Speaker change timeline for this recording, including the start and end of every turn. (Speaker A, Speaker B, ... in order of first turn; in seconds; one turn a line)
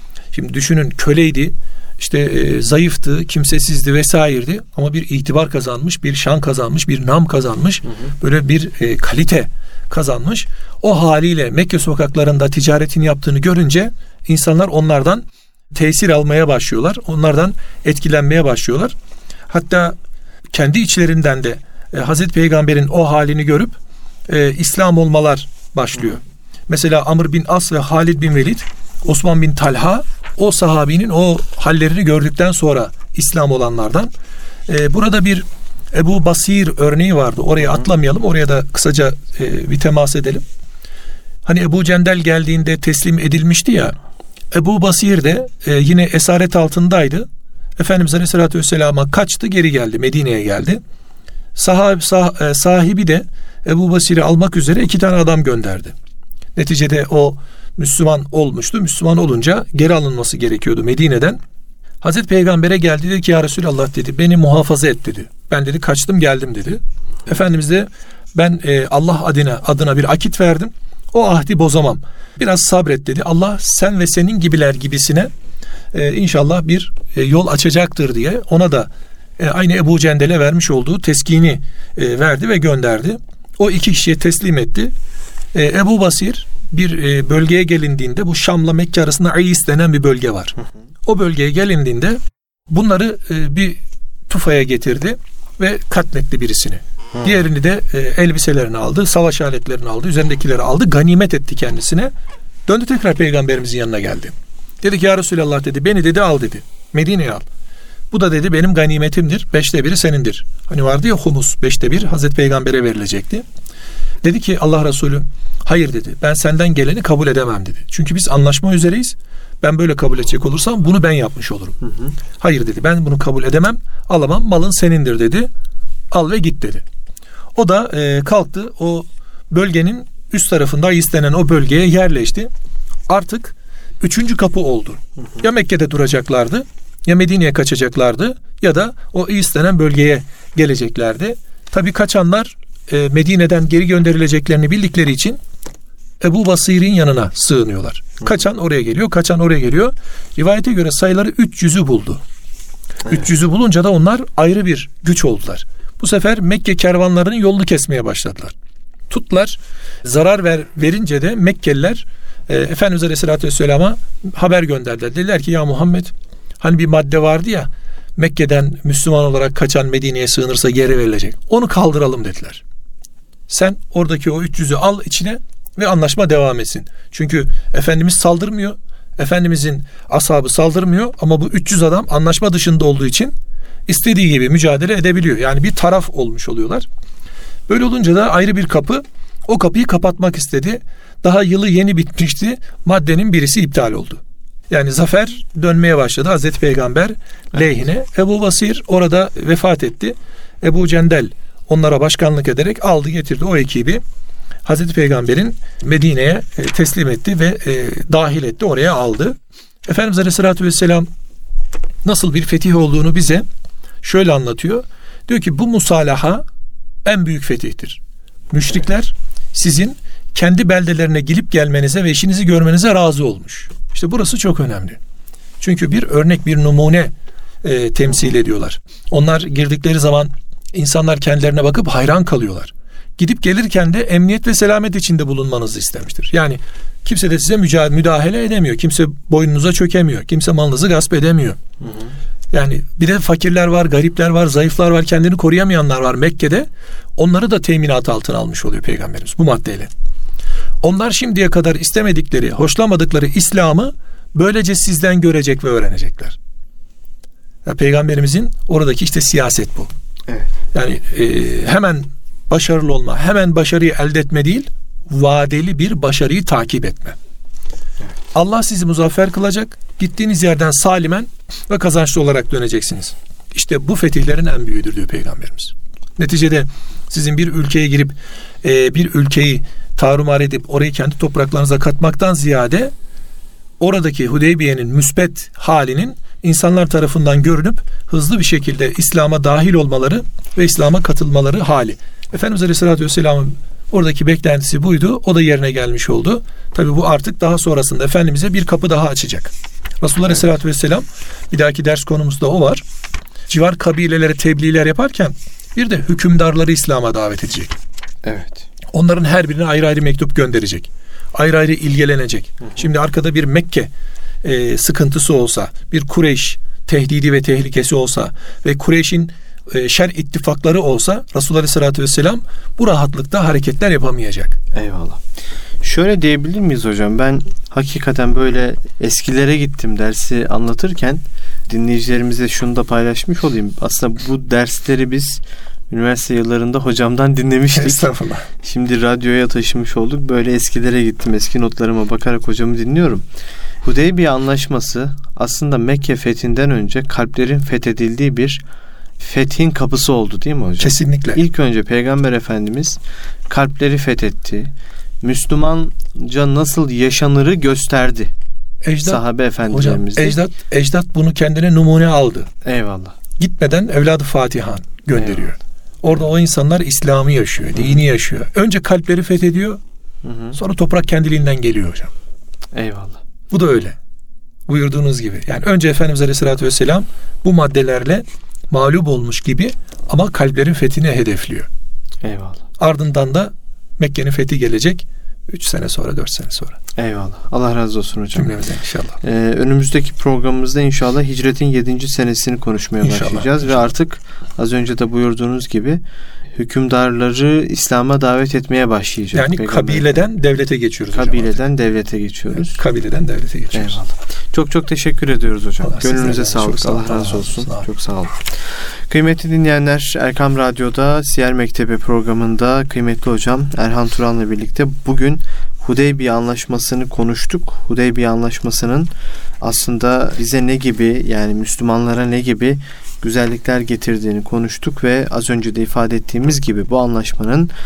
Speaker A: 0.3-18.9
Speaker A: 19.5-19.9
Speaker A: 20.5-23.8
Speaker A: 24.3-34.1
Speaker A: 34.7-40.4
Speaker A: 41.5-44.0
Speaker A: 44.5-50.8
Speaker A: 51.6-56.0
Speaker A: 56.5-61.4
Speaker A: 62.0-75.3
Speaker A: 75.9-84.9
Speaker A: 85.5-102.1
Speaker A: 102.7-107.5
Speaker A: 108.1-113.5
Speaker A: 114.2-125.5
Speaker A: 126.1-126.8
Speaker A: 127.5-132.5
Speaker A: 133.1-145.4
Speaker A: 146.2-152.2
Speaker A: 153.1-158.5
Speaker A: 159.1-172.6
Speaker A: 173.5-183.3
Speaker A: 183.9-186.9
Speaker A: 187.7-204.0
Speaker A: 204.7-211.1
Speaker A: 212.0-213.5
Speaker A: 214.0-216.4
Speaker A: 217.1-225.0
Speaker A: 225.6-241.6
Speaker B: 241.8-242.1
Speaker A: 242.5-249.9
Speaker A: 250.8-256.4
Speaker A: 257.6-259.9
Speaker A: 260.7-267.2
Speaker A: 268.3-282.9
Speaker A: 283.8-302.8
Speaker A: 303.5-307.8
Speaker B: 308.2-308.7
Speaker A: 308.9-313.9
Speaker A: 314.4-324.6
Speaker B: 324.7-325.2
Speaker B: 325.8-343.2
Speaker A: 337.8-338.5
Speaker B: 343.8-348.6
Speaker B: 349.2-358.3
Speaker A: 350.8-351.4
Speaker A: 358.8-362.5
Speaker B: 359.0-360.4
Speaker B: 362.6-363.2
Speaker A: 363.4-369.8
Speaker B: 365.2-365.5
Speaker B: 367.8-368.0
Speaker B: 370.2-370.6
Speaker A: 370.5-372.1
Speaker B: 372.7-373.2
Speaker A: 373.5-374.0
Speaker A: 374.7-381.7
Speaker B: 382.2-382.7
Speaker A: 382.8-386.8
Speaker B: 387.0-388.6
Speaker A: 388.3-389.2
Speaker B: 389.2-396.0
Speaker A: 393.0-393.9
Speaker B: 396.6-400.1
Speaker A: 399.3-401.6
Speaker B: 401.1-402.8
Speaker A: 402.5-404.0
Speaker B: 403.7-427.7
Speaker A: 405.8-407.9